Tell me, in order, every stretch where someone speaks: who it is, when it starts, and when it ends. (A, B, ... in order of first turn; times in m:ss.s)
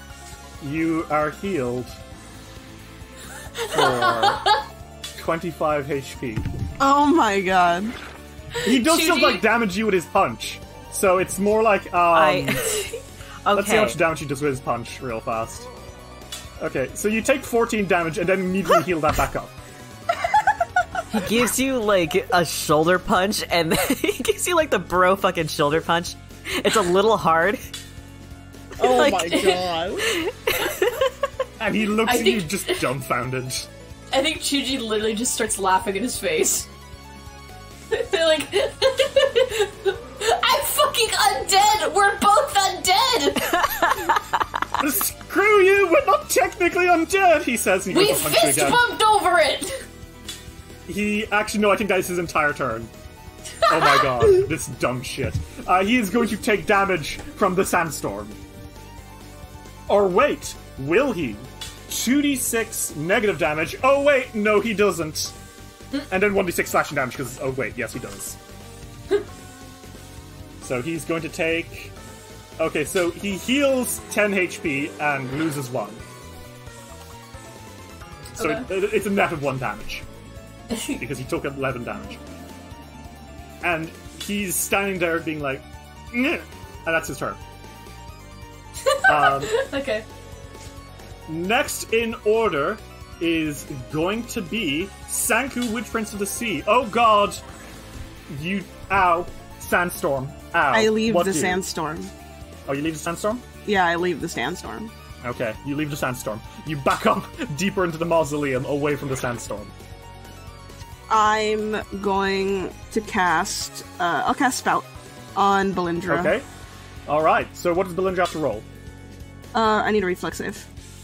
0:00.6-0:02.0 A
0:03.6-0:04.6 B
0:03.7-0:04.4 A
0:05.2-0:06.4 A
0:06.8-0:07.9 C
0:08.6-0:09.4 B
0:08.6-0:12.8 A
0:12.1-0:14.0 D
0:13.5-0:15.7 A
0:16.6-0:19.5 A
0:20.2-0:20.5 C
0:21.1-0:27.7 D
0:28.8-0:30.1 C
0:28.8-0:31.1 D
0:29.0-0:29.6 B
0:31.6-0:33.7 A
0:32.0-0:32.8 B
0:34.1-0:36.7 B
0:37.9-0:43.6 B
0:43.6-0:44.2 D
0:44.8-0:48.8 A
0:47.9-0:49.8 B
0:50.9-0:52.9 A
0:53.6-0:54.1 B
0:53.7-0:58.4 A
0:59.9-1:05.3 A
1:06.1-1:08.4 A
1:10.6-1:11.9 A
1:12.6-1:16.0 A
1:18.4-1:20.0 A
1:18.4-1:18.6 B
1:20.7-1:21.0 B
1:21.0-1:22.2 A
1:23.6-1:27.4 A
1:28.8-1:30.0 B
1:29.1-1:29.5 A
1:31.3-1:37.4 A
1:38.3-1:41.6 A
1:40.7-1:42.1 C
1:42.7-1:43.4 A
1:43.6-1:44.9 C
1:45.2-1:49.7 A
1:51.1-1:56.3 C
1:56.1-1:56.4 A
1:57.1-1:58.6 A
1:59.5-2:00.7 C